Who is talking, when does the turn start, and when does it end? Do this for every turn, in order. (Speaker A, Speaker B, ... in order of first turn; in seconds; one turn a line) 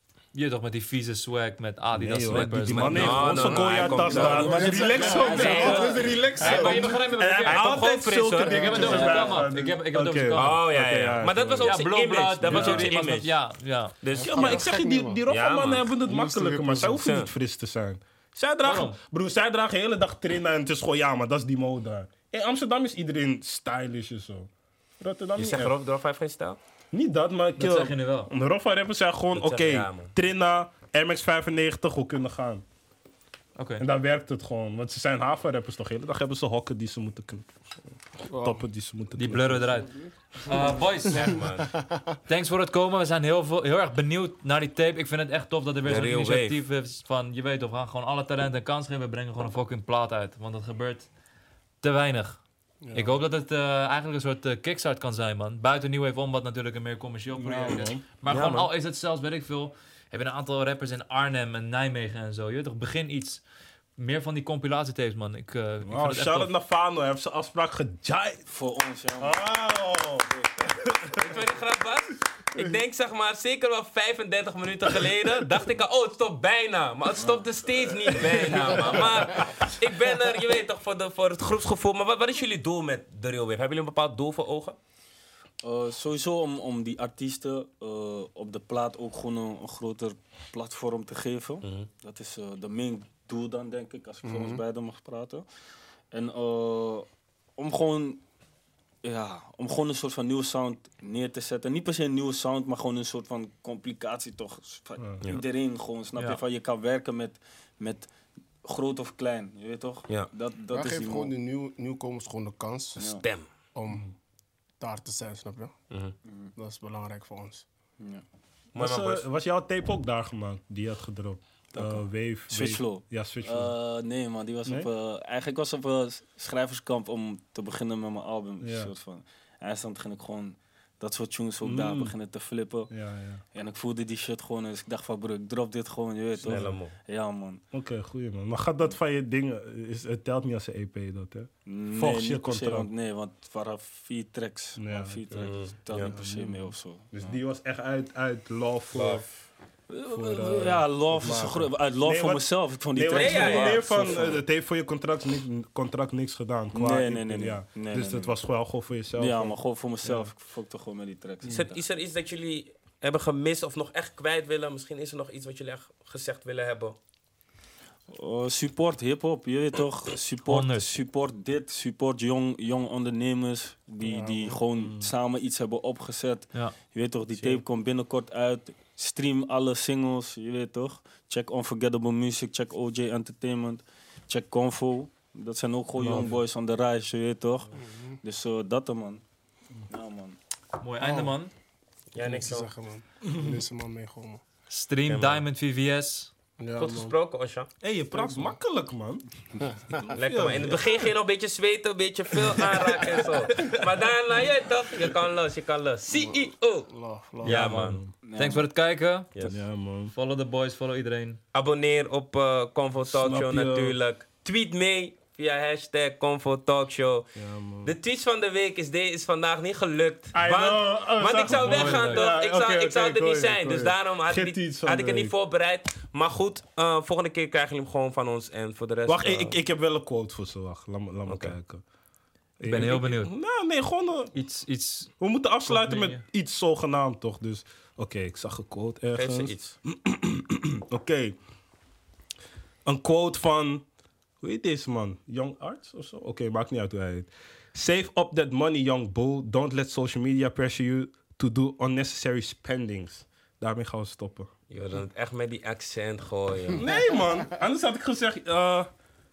Speaker A: 0.3-4.1
Speaker B: 1.9-11.7
Speaker C: 2.6-9.4
Speaker D: 3.8-6.2
Speaker E: 4.7-7.0
Speaker A: 5.0-7.9
Speaker A: 8.4-10.7
Speaker E: 8.4-9.1
Speaker C: 10.3-13.3
Speaker A: 11.6-14.0
Speaker B: 12.4-12.9
Speaker C: 14.0-14.8
Speaker E: 14.1-15.2
Speaker B: 14.2-24.5
Speaker C: 15.3-15.9
Speaker E: 16.0-17.0
Speaker C: 17.0-17.3
Speaker A: 18.6-19.0
Speaker B: 25.0-25.8
Speaker C: 25.4-26.6
Speaker B: 26.9-32.6
Speaker A: 27.6-28.3
Speaker C: 29.3-30.1
Speaker A: 33.5-33.8
Speaker B: 33.8-37.5
Speaker B: 38.2-39.8
Speaker E: 38.3-38.6
Speaker A: 39.2-41.5
Speaker C: 41.1-41.7
Speaker A: 42.3-51.1
Speaker C: 45.8-46.6
Speaker A: 51.8-52.4
Speaker E: 52.8-53.1
Speaker A: 52.9-63.4
Speaker B: 57.3-58.0
Speaker C: 58.3-58.7
Speaker A: 64.0-66.5
Speaker B: 65.8-68.4
Speaker D: 68.5-69.4
Speaker B: 69.2-71.3
Speaker C: 71.2-84.8
Speaker D: 77.2-77.5
Speaker B: 78.2-78.7
Speaker D: 78.7-79.3
Speaker D: 85.6-95.4
Speaker C: 91.6-91.9
Speaker E: 94.2-94.6
Speaker D: 96.1-98.2
Speaker D: 99.0-108.1
Speaker B: 105.0-105.2
Speaker A: 106.1-106.4
Speaker D: 108.6-111.3
Speaker E: 110.7-113.0
Speaker C: 113.0-113.5
Speaker D: 113.0-113.2
Speaker E: 113.7-114.0
Speaker E: 114.8-115.7
Speaker D: 116.3-116.5
Speaker E: 116.5-117.6
Speaker C: 118.7-119.3
Speaker B: 118.7-123.7
Speaker D: 121.7-132.9
Speaker B: 128.6-128.9
Speaker B: 131.6-132.1
Speaker B: 132.9-133.4
Speaker D: 133.5-137.6
Speaker C: 136.4-136.9
Speaker B: 136.4-136.8
Speaker B: 137.7-142.9
Speaker D: 141.7-147.4
Speaker B: 144.8-149.3
Speaker C: 145.4-146.1
Speaker C: 148.9-149.2
Speaker D: 149.9-154.4
Speaker B: 150.1-160.3
Speaker C: 153.1-154.4
Speaker D: 156.7-158.3
Speaker D: 159.2-161.8
Speaker C: 161.5-166.9
Speaker D: 168.1-189.2
Speaker A: 170.4-170.9
Speaker B: 174.1-175.1
Speaker B: 177.3-177.6
Speaker B: 186.0-186.4
Speaker E: 187.7-188.2
Speaker D: 189.9-190.4
Speaker A: 190.8-191.5
Speaker E: 191.0-191.3
Speaker C: 192.1-192.7
Speaker E: 192.2-194.4
Speaker B: 193.3-193.5
Speaker A: 194.7-196.3
Speaker C: 195.1-195.4
Speaker E: 196.6-197.1
Speaker C: 196.8-197.7
Speaker B: 197.8-199.2
Speaker E: 199.7-200.0
Speaker B: 199.9-201.1
Speaker C: 200.1-206.9
Speaker B: 202.4-203.8
Speaker E: 206.1-207.7
Speaker C: 207.4-208.0
Speaker A: 207.4-209.4
Speaker B: 207.4-208.1
Speaker D: 208.2-208.7
Speaker B: 209.4-210.1
Speaker A: 210.1-211.4
Speaker C: 211.5-217.3
Speaker B: 213.1-214.0
Speaker B: 217.4-217.9
Speaker C: 217.8-229.6
Speaker B: 220.3-225.3
Speaker A: 221.4-222.3
Speaker B: 229.1-231.8
Speaker C: 231.3-231.6
Speaker B: 232.6-234.3
Speaker A: 232.6-233.3
Speaker A: 234.3-235.1
Speaker B: 235.2-241.4
Speaker A: 235.6-236.2
Speaker C: 239.1-239.8
Speaker B: 242.8-243.8
Speaker B: 244.4-254.5
Speaker C: 254.7-256.9
Speaker B: 256.7-258.9
Speaker E: 256.9-257.4